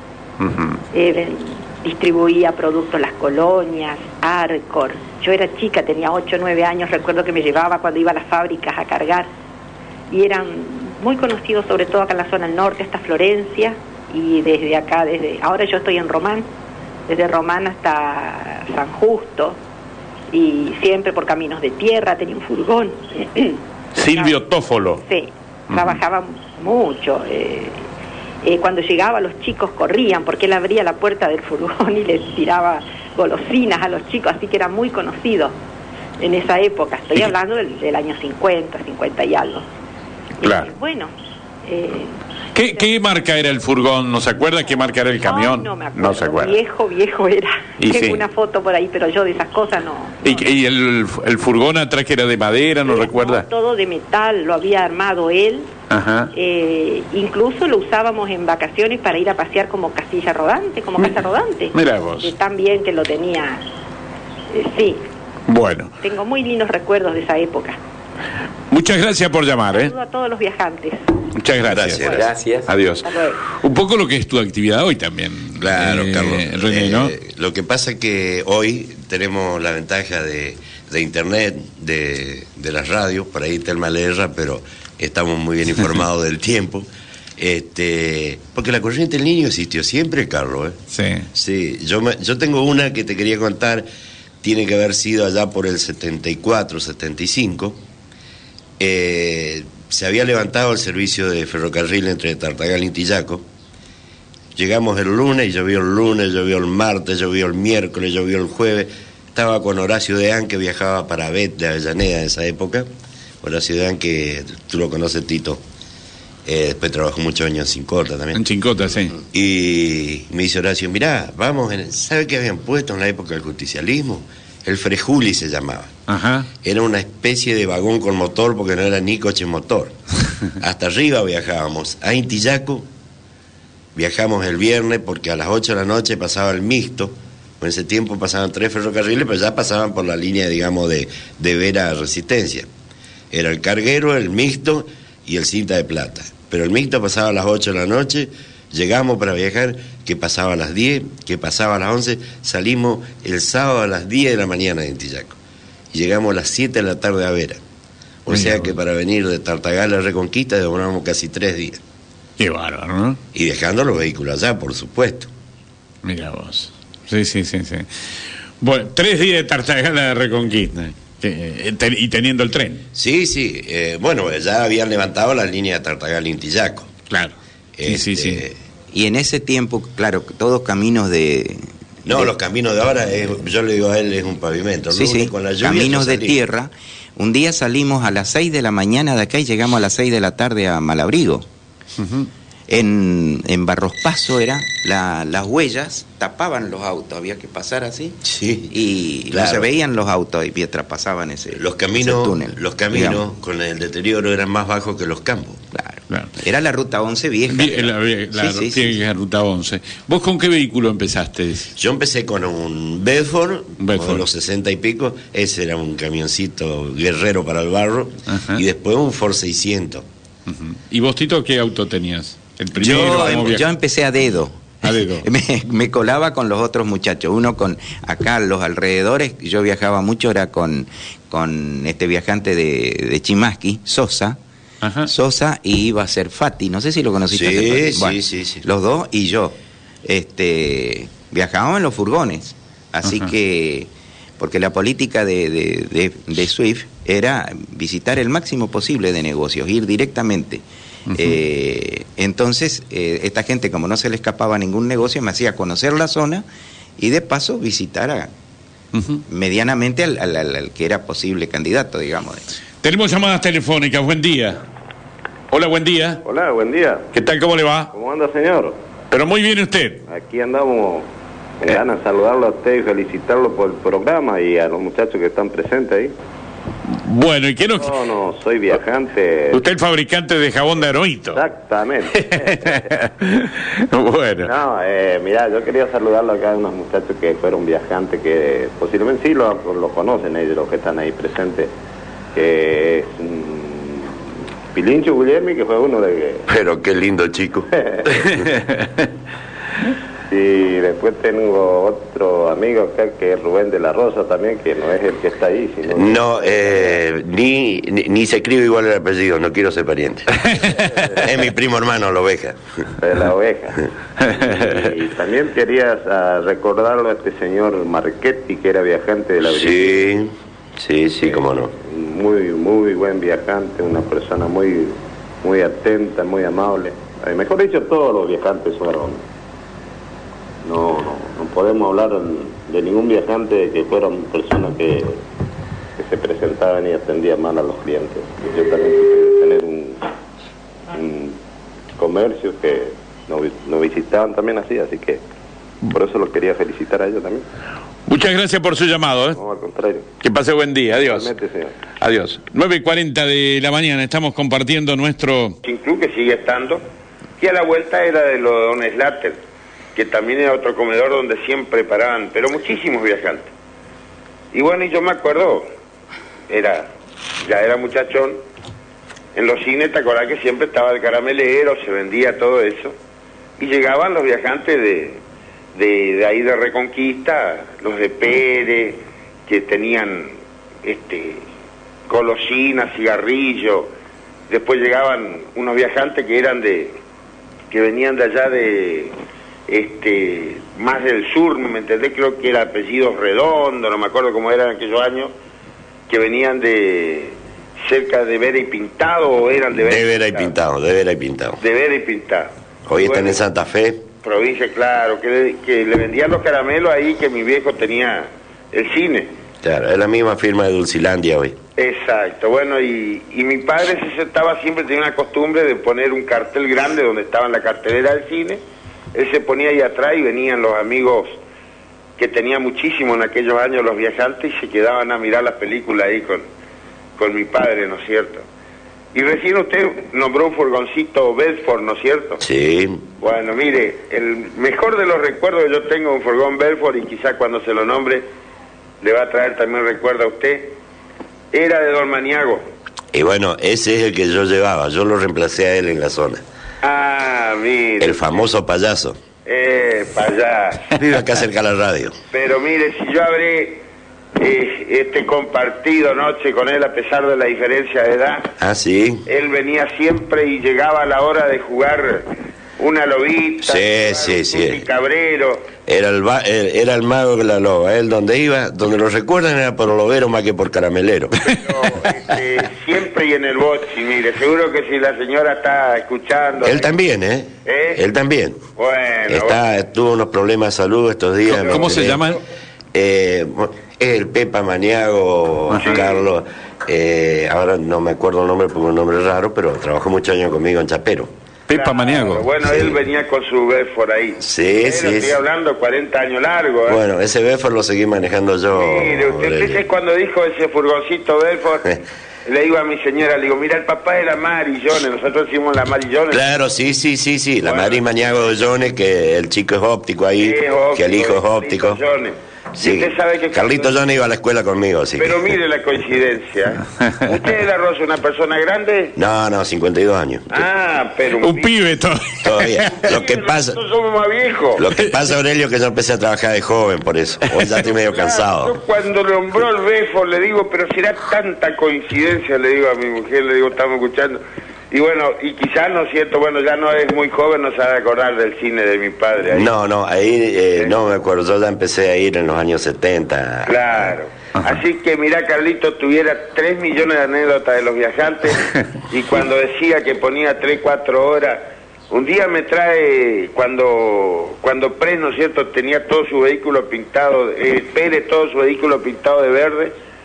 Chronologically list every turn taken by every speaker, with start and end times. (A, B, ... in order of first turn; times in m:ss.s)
0:00.4-0:00.8 A
0:00.9-0:09.3 B
0:10.1-0:16.5 B
0:17.1-0:19.6 B
0:20.3-0:23.6 B
0:23.9-0:25.0 A
0:24.1-0:24.4 B
0:25.0-0:27.9 B
0:25.7-0:26.0 A
0:28.4-0:35.6 B
0:36.2-0:39.6 B
0:40.4-0:40.7 A
0:40.4-0:41.1 B
0:41.6-0:42.2 B
0:42.5-0:46.6 A
0:45.2-0:50.4 B
0:47.8-0:48.2 A
0:50.2-0:53.4 A
0:52.8-0:55.7 B
0:55.9-0:56.3 A
0:56.3-1:03.6 B
1:01.7-1:02.3 A
1:04.5-1:05.0 B
1:05.5-1:05.9 A
1:06.0-1:07.8 B
1:08.7-1:09.9 A
1:09.7-1:11.2 B
1:11.3-1:17.1 A
1:11.6-1:12.2 C
1:12.0-1:12.3 B
1:12.1-1:12.7 D
1:13.0-1:13.4 B
1:15.6-1:26.9 C
1:27.4-1:30.8 C
1:30.9-1:31.3 A
1:31.3-1:33.8 C
1:34.4-1:37.8 C
1:38.8-1:43.4 C
1:44.5-1:52.9 C
1:53.4-1:55.6 C
1:56.4-1:58.4 C
1:58.3-1:59.1 A
1:59.3-2:05.9 C
2:06.1-2:06.5 A
2:06.6-2:09.9 C
2:10.6-2:12.8 C
2:14.0-2:22.7 C
2:23.3-2:35.4 C
2:35.9-2:37.6 C
2:38.2-2:41.8 C
2:38.3-2:38.7 A
2:42.4-2:43.2 A
2:43.3-2:45.3 C
2:46.0-2:47.9 A
2:48.6-2:52.8 A
2:52.9-2:56.9 C
2:57.1-2:58.4 A
2:57.8-2:58.6 C
2:58.9-3:02.3 D
3:02.0-3:06.4 C
3:04.9-3:11.4 D
3:12.0-3:12.3 A
3:12.7-3:23.2 D
3:18.2-3:18.8 C
3:19.3-3:19.7 C
3:21.5-3:25.6 C
3:25.7-3:29.0 D
3:27.5-3:31.7 A
3:31.8-3:40.0 C
3:33.8-3:34.2 A
3:38.3-3:38.6 A
3:40.5-3:43.7 A
3:42.7-3:54.4 D
3:44.8-3:45.2 A
3:54.8-3:55.1 A
3:55.0-4:16.4 D
3:57.3-3:58.6 C
4:03.0-4:03.3 A
4:11.1-4:11.4 A
4:17.0-4:18.3 D
4:18.9-4:19.2 A
4:19.3-4:22.4 D
4:22.8-4:24.6 A
4:25.5-4:26.2 A
4:26.2-4:27.1 E
4:27.1-4:27.9 A
4:27.9-4:28.8 E
4:29.1-4:30.0 A
4:30.1-4:31.1 E
4:31.6-4:36.1 E
4:36.9-4:37.9 A
4:37.8-4:39.6 E
4:39.5-4:41.4 A
4:41.3-4:42.8 E
4:42.1-4:44.5 A
4:44.4-4:51.7 E
4:52.3-4:56.4 E
4:56.5-4:58.4 C
4:57.8-4:58.1 E
5:00.3-5:07.0 E
5:05.9-5:10.5 C
5:10.4-5:10.7 A
5:10.8-5:11.2 E
5:11.2-5:12.6 C
5:13.0-5:20.1 E
5:14.2-5:14.7 A
5:19.4-5:21.7 C
5:21.2-5:29.2 E
5:30.6-5:35.2 E
5:36.0-5:40.0 E
5:40.9-5:41.4 E
5:42.0-5:45.2 E
5:45.8-5:47.4 E
5:48.1-5:49.4 A
5:49.3-5:50.0 E
5:50.2-5:51.3 A
5:51.1-5:51.7 E
5:52.0-5:55.6 A
5:55.6-5:56.8 F
5:57.4-5:59.4 F
5:59.9-6:03.5 F
6:04.5-6:05.7 F
6:06.5-6:08.4 F
6:09.3-6:12.9 F
6:13.6-6:15.2 F
6:15.7-6:21.4 F
6:22.1-6:23.9 F
6:24.5-6:27.0 F
6:27.7-6:29.1 F
6:29.7-6:35.3 F
6:36.1-6:40.5 F
6:39.7-6:41.6 C
6:41.6-6:43.4 F
6:42.9-6:44.0 C
6:44.2-6:49.3 F
6:49.6-6:51.6 C
6:51.8-6:58.6 F
6:59.1-7:01.4 F
7:02.2-7:06.4 F
7:07.2-7:08.4 F
7:09.1-7:12.4 F
7:12.4-7:13.0 C
7:13.2-7:18.2 F
7:19.0-7:20.8 F
7:21.5-7:22.6 F
7:23.1-7:26.4 C
7:26.8-7:28.5 F
7:28.0-7:29.2 C
7:29.4-7:31.0 F
7:30.9-7:32.1 C
7:32.3-7:33.8 F
7:34.4-7:38.5 F
7:38.6-7:39.2 C
7:39.3-7:42.3 F
7:42.8-7:45.7 F
7:43.6-7:44.8 C
7:45.8-7:51.5 C
7:51.4-7:56.9 F
7:56.6-7:58.7 C
7:57.6-7:58.0 F
7:58.7-7:59.6 F
7:59.3-8:02.2 C
8:01.5-8:02.4 A
8:01.5-8:02.4 F
8:02.9-8:11.3 C
8:05.8-8:06.2 F
8:11.7-8:12.5 A
8:11.7-8:17.0 F
8:12.6-8:13.0 C
8:14.4-8:15.4 C
8:16.8-8:19.8 C
8:18.7-8:21.8 F
8:22.4-8:26.4 F
8:26.3-8:32.0 C
8:27.6-8:28.0 F
8:30.4-8:34.0 F
8:32.8-8:35.6 C
8:35.2-8:39.1 F
8:39.2-8:40.6 C
8:40.5-8:41.7 F
8:41.4-8:43.0 A
8:42.4-8:43.8 C
8:43.0-8:44.8 F
8:44.8-8:48.8 C
8:47.8-8:59.7 F
8:59.4-9:04.1 C
9:03.6-9:19.9 F